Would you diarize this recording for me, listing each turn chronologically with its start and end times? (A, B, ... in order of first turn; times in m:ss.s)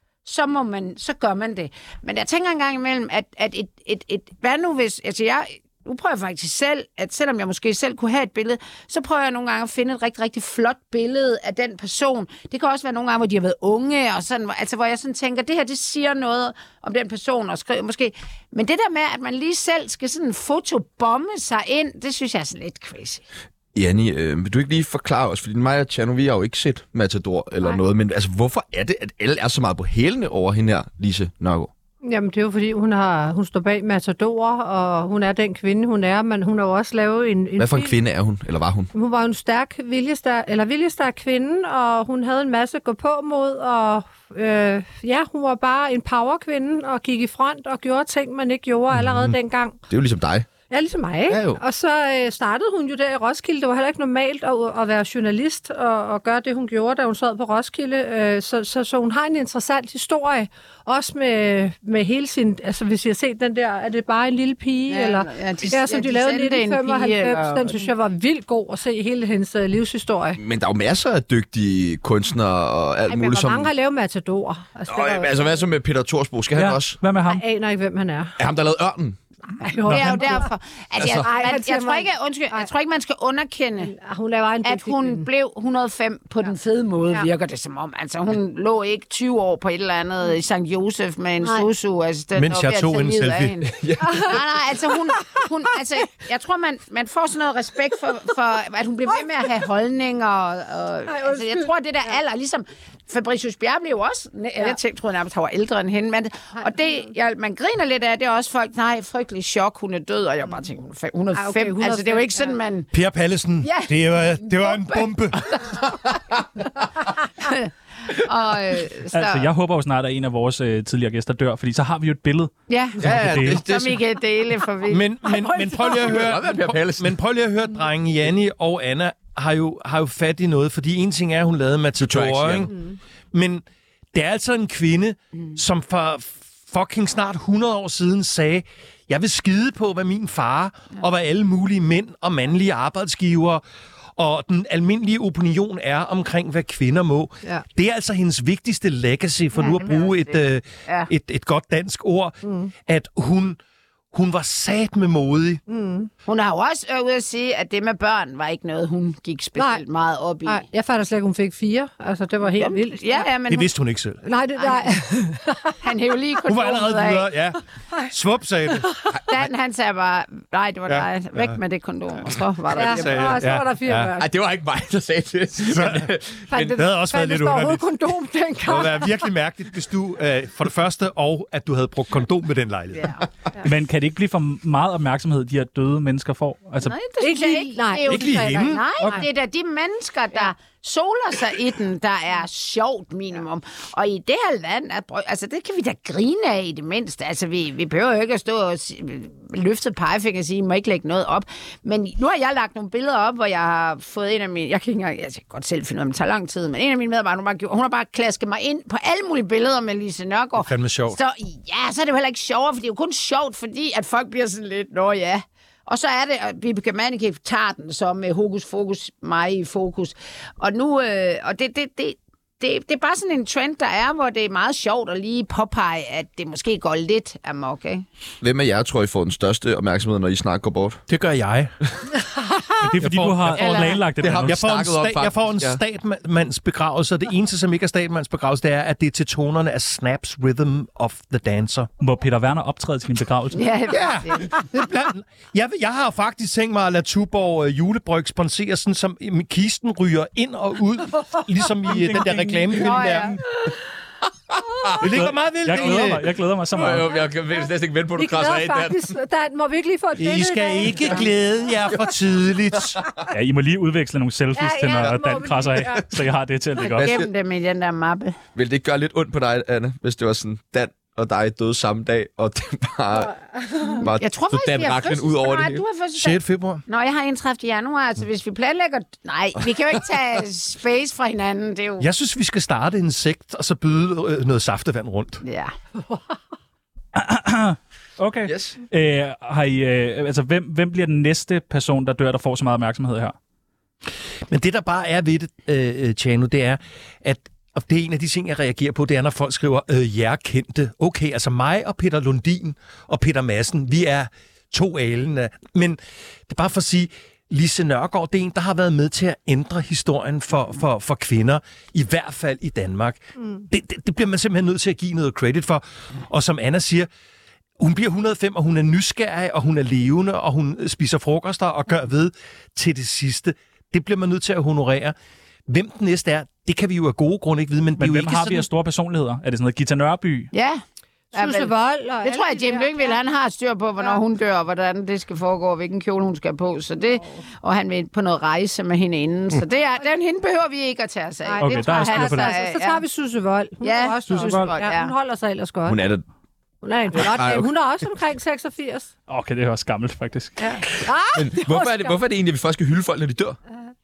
0:00.2-0:23.2 A
0:23.7-0:31.7 B
0:32.0-0:37.9 C
0:37.6-0:38.9 B
0:38.9-0:49.8 C
0:48.9-0:49.3 D
0:49.9-0:50.5 B
0:50.7-1:10.4 C
0:51.3-0:51.6 B
1:04.9-1:07.9 A
1:10.4-1:13.7 B
1:13.1-1:15.5 C
1:14.9-1:17.0 B
1:16.5-1:17.4 E
1:17.2-1:18.3 C
1:18.4-1:19.2 B
1:19.6-1:20.5 C
1:19.8-1:20.4 B
1:19.8-1:23.9 A
1:21.0-1:21.4 B
1:21.2-1:22.7 C
1:23.8-1:25.3 C
1:24.6-1:52.9 A
1:31.4-1:31.7 C
1:32.3-1:33.7 D
1:33.8-1:34.2 B
1:34.0-1:34.3 C
1:41.1-1:42.2 C
1:46.5-1:47.0 C
1:51.3-1:52.6 C
1:52.9-1:55.4 D
1:53.6-1:55.8 A
1:56.8-1:59.5 A
1:59.1-2:02.5 E
2:02.7-2:05.1 A
2:03.0-2:04.0 B
2:03.0-2:03.6 E
2:04.9-2:12.7 D
2:05.2-2:05.9 C
2:05.9-2:07.1 B
2:12.0-2:12.7 B
2:13.3-2:23.6 D
2:24.2-2:33.6 D
2:29.6-2:31.1 A
2:32.4-2:32.7 C
2:34.1-2:35.6 D
2:35.7-2:36.1 C
2:36.2-2:40.6 A
2:39.6-2:39.8 C
2:40.4-2:43.3 C
2:42.5-2:43.7 A
2:43.5-2:44.2 D
2:44.2-2:45.8 C
2:44.6-2:45.0 A
2:45.8-2:47.3 A
2:46.4-2:48.9 D
2:49.3-2:53.4 A
2:50.9-2:51.6 D
2:52.7-2:54.3 C
2:52.8-2:54.1 D
2:54.2-2:56.6 B
2:55.6-2:57.8 D
2:56.5-2:59.2 C
2:58.7-3:03.2 D
3:03.0-3:03.2 A
3:03.6-3:07.0 E
3:06.8-3:48.0 A
3:07.2-3:09.2 C
3:08.0-3:08.8 D
3:30.6-3:31.2 D
3:48.4-3:51.0 B
3:51.1-3:51.7 D
3:52.8-3:54.6 E
3:53.0-4:01.9 D
3:53.6-3:54.0 A
3:54.1-3:55.8 B
4:02.0-4:03.7 E
4:03.5-4:04.6 A
4:03.9-4:13.4 D
4:11.9-4:13.1 E
4:12.8-4:13.3 A
4:14.5-4:15.1 B
4:15.0-4:16.2 D
4:15.1-4:17.1 E
4:16.7-4:19.1 B
4:18.1-4:21.3 C
4:20.2-4:23.0 D
4:23.3-4:27.1 E
4:24.5-4:26.0 C
4:26.8-4:27.3 B
4:27.0-4:28.4 A
4:28.5-4:33.3 B
4:33.2-4:34.1 C
4:34.0-4:35.8 B
4:34.2-4:42.1 A
4:36.2-4:36.8 D
4:42.0-4:45.4 D
4:45.4-4:45.7 A
4:47.1-4:53.4 E
4:48.4-4:48.8 B
4:54.5-5:17.1 D
5:17.8-5:25.1 D
5:25.7-5:28.7 D
5:28.0-5:30.5 E
5:30.5-5:30.8 A
5:31.3-5:33.2 C
5:31.3-5:31.7 A
5:32.2-5:43.0 A
5:41.4-5:46.0 C
5:41.6-5:42.5 E
5:43.8-5:45.1 A
5:44.4-5:44.7 E
5:45.9-5:46.2 B
5:46.8-5:49.1 C
5:47.1-5:47.7 B
5:49.3-5:50.7 E
5:50.6-5:52.2 C
5:51.3-5:53.6 B